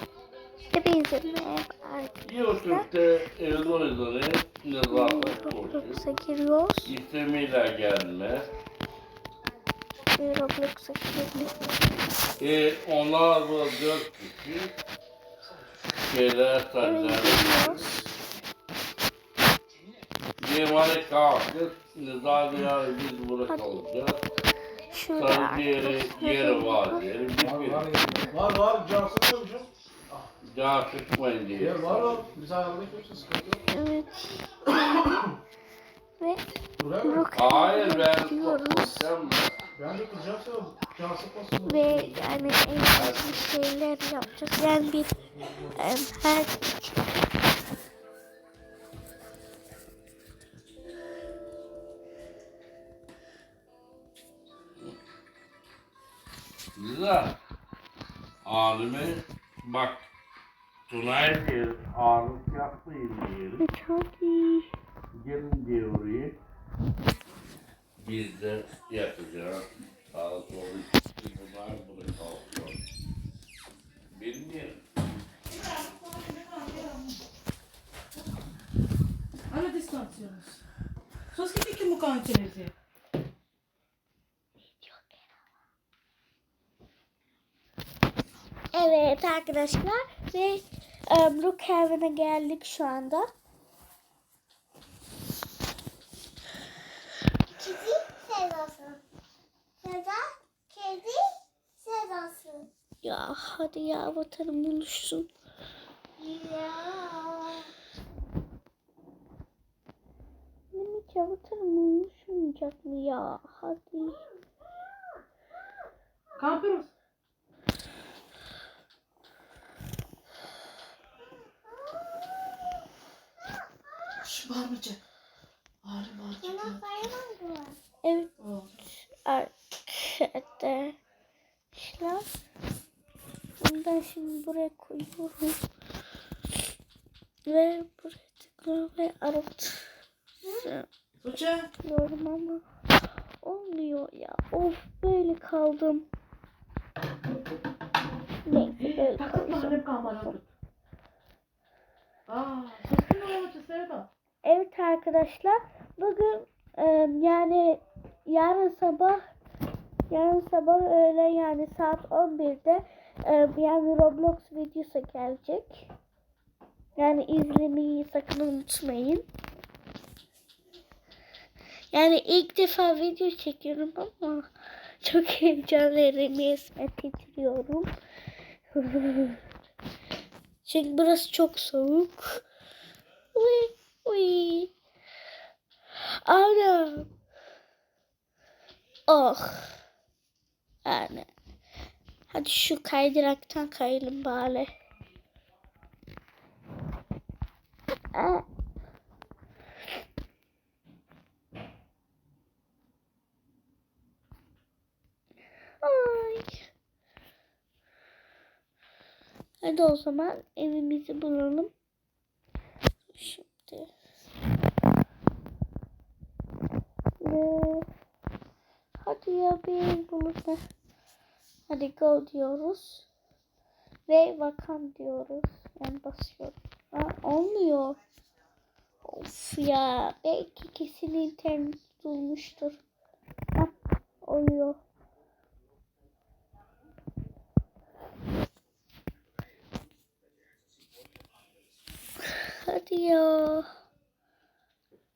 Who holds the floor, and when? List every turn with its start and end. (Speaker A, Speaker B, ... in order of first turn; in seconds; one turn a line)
Speaker A: 0.7-2.9
Speaker B: 2.2-6.0
Speaker A: 3.5-3.8
Speaker A: 4.9-6.9
Speaker B: 6.8-8.5
Speaker A: 10.1-11.5
Speaker B: 12.4-14.7
Speaker B: 16.0-18.0
Speaker A: 16.8-17.9
Speaker B: 20.4-24.2
Speaker A: 23.5-23.9
Speaker A: 24.9-27.1
Speaker B: 25.2-28.3
Speaker C: 27.4-30.3
Speaker B: 30.4-32.3
Speaker C: 31.6-33.6
Speaker A: 33.7-35.2
Speaker C: 36.8-37.3
Speaker A: 37.0-39.1
Speaker B: 37.3-39.7
Speaker C: 39.8-42.5
Speaker A: 41.6-45.2
Speaker B: 42.9-43.5
Speaker C: 45.4-45.8
Speaker A: 45.7-46.9
Speaker B: 56.8-57.4
Speaker B: 58.4-60.1
Speaker B: 60.9-63.6
Speaker A: 63.6-64.7
Speaker B: 65.1-66.4
Speaker B: 68.0-72.8
Speaker B: 74.1-74.8
Speaker D: 75.5-77.2
Speaker D: 79.5-80.6
Speaker D: 81.3-82.7
Speaker A: 84.8-85.3
Speaker A: 88.7-93.3
Speaker E: 97.5-99.0
Speaker E: 99.8-102.7
Speaker A: 103.0-105.3
Speaker E: 106.2-107.7
Speaker A: 110.7-114.2
Speaker D: 116.4-116.9
Speaker D: 124.2-125.0
Speaker D: 125.8-127.1
Speaker E: 126.4-127.8
Speaker A: 128.0-128.3
Speaker D: 128.4-128.7
Speaker A: 128.9-130.9
Speaker A: 131.7-132.2
Speaker A: 133.6-135.6
Speaker A: 137.5-139.9
Speaker A: 140.6-140.9
Speaker D: 141.2-141.7
Speaker A: 141.8-142.6
Speaker A: 143.4-146.1
Speaker A: 148.5-149.8
Speaker D: 148.8-150.4
Speaker D: 152.3-154.1
Speaker A: 154.4-159.2
Speaker A: 160.1-165.9
Speaker A: 167.0-169.2
Speaker A: 171.9-174.5
Speaker A: 175.0-177.9
Speaker A: 178.7-179.4
Speaker A: 180.7-182.4
Speaker A: 183.3-184.7
Speaker A: 186.0-187.1
Speaker A: 189.1-189.8
Speaker A: 190.8-191.3
Speaker A: 192.3-194.7
Speaker A: 198.1-198.4
Speaker A: 205.8-206.7
Speaker A: 209.6-211.7
Speaker A: 213.1-213.9
Speaker A: 217.2-217.9
Speaker A: 219.0-220.6
Speaker A: 221.7-223.1
Speaker A: 224.1-228.0
Speaker A: 229.1-232.8
Speaker A: 233.6-234.8
Speaker A: 242.2-243.7